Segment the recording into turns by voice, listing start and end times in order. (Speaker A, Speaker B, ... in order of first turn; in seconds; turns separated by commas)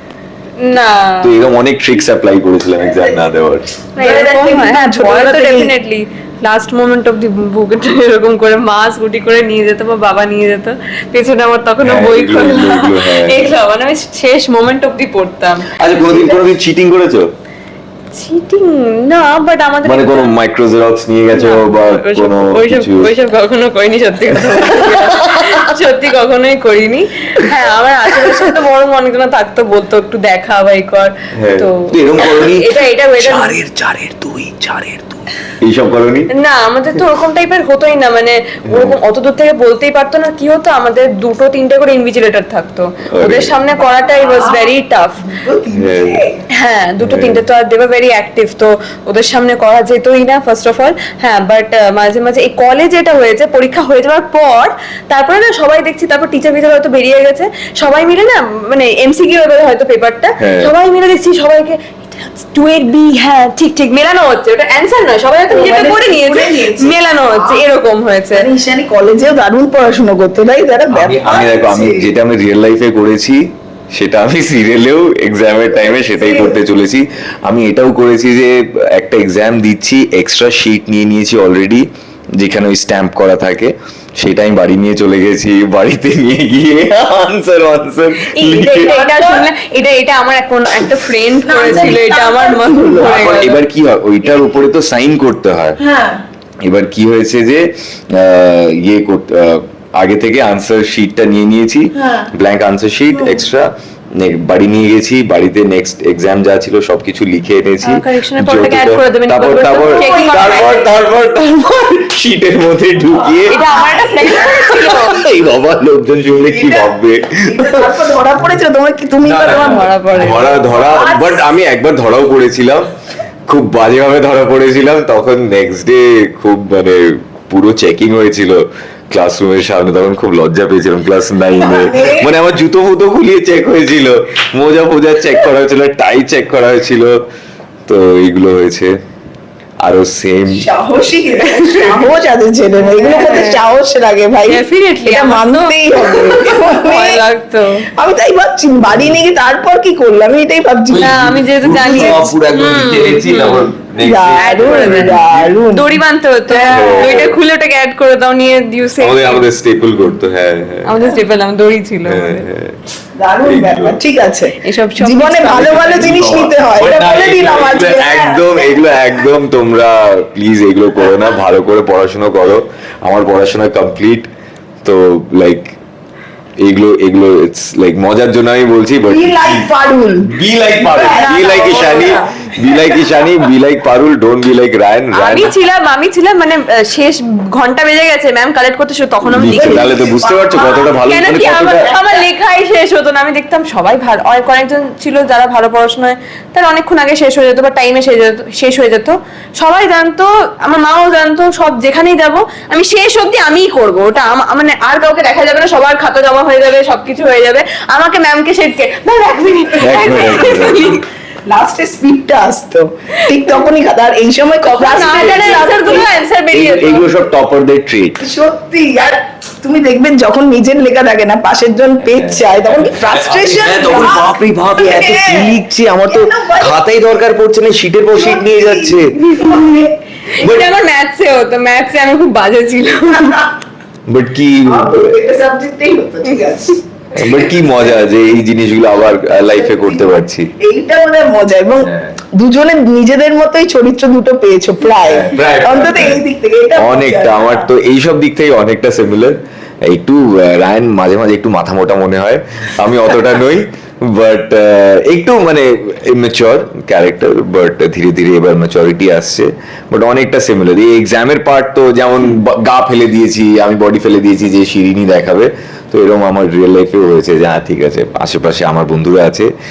Speaker A: 0.6-1.3, Speaker B: 1.2-3.7, Speaker C: 2.8-3.2, Speaker A: 4.0-15.7, Speaker C: 4.0-5.7, Speaker B: 11.8-13.4, Speaker B: 15.7-17.3, Speaker C: 16.0-16.4, Speaker A: 18.1-20.4, Speaker B: 19.8-23.1, Speaker A: 21.3-33.6, Speaker B: 24.4-25.7, Speaker B: 28.1-28.4, Speaker B: 31.4-36.3, Speaker A: 36.4-45.2, Speaker B: 38.7-39.0, Speaker B: 43.1-43.9, Speaker C: 44.2-46.4, Speaker B: 45.7-46.2, Speaker A: 46.5-68.5, Speaker B: 47.0-47.4, Speaker B: 60.4-60.7, Speaker C: 65.5-67.7, Speaker C: 68.3-72.1, Speaker B: 70.9-81.9, Speaker C: 75.9-76.6, Speaker B: 82.4-88.9, Speaker A: 88.2-93.6, Speaker C: 88.8-89.5, Speaker C: 91.4-93.6, Speaker B: 93.0-95.8, Speaker C: 95.8-96.2, Speaker B: 96.7-113.6, Speaker C: 102.0-102.3, Speaker C: 103.1-103.4, Speaker A: 107.8-110.9, Speaker C: 109.8-110.7, Speaker C: 113.1-114.7, Speaker A: 113.5-115.2, Speaker B: 114.3-117.9, Speaker C: 116.5-121.5, Speaker B: 119.2-122.9, Speaker A: 119.5-120.6, Speaker B: 123.5-137.2, Speaker C: 131.5-132.3, Speaker B: 137.9-138.9, Speaker B: 139.8-140.7, Speaker C: 140.5-147.2, Speaker A: 141.4-142.1, Speaker A: 142.8-143.7, Speaker A: 144.5-147.9, Speaker C: 147.9-152.3, Speaker B: 148.9-149.1, Speaker B: 150.9-155.6, Speaker A: 151.0-153.7, Speaker C: 154.0-157.2, Speaker A: 154.4-159.5, Speaker B: 156.7-157.4, Speaker B: 159.0-161.0, Speaker A: 160.8-162.5, Speaker B: 162.1-162.8, Speaker C: 163.2-169.1, Speaker B: 163.4-164.0, Speaker A: 164.6-166.1, Speaker B: 165.6-174.3, Speaker B: 174.8-175.8, Speaker B: 176.6-179.7, Speaker C: 179.1-183.2, Speaker B: 180.3-185.5, Speaker A: 181.1-182.2, Speaker A: 185.2-211.0, Speaker B: 189.2-191.9, Speaker C: 189.3-191.0, Speaker C: 191.8-192.3, Speaker B: 209.8-211.0, Speaker C: 211.5-216.1, Speaker A: 213.2-213.7, Speaker A: 214.7-217.3, Speaker B: 216.5-218.2, Speaker C: 218.2-226.9, Speaker B: 222.0-229.4, Speaker C: 228.1-230.6, Speaker A: 229.3-233.5, Speaker B: 230.4-230.7, Speaker B: 234.1-235.2, Speaker C: 234.7-237.9, Speaker B: 237.2-240.5, Speaker C: 239.1-247.7, Speaker B: 241.8-242.2, Speaker B: 245.0-246.2, Speaker B: 246.8-269.5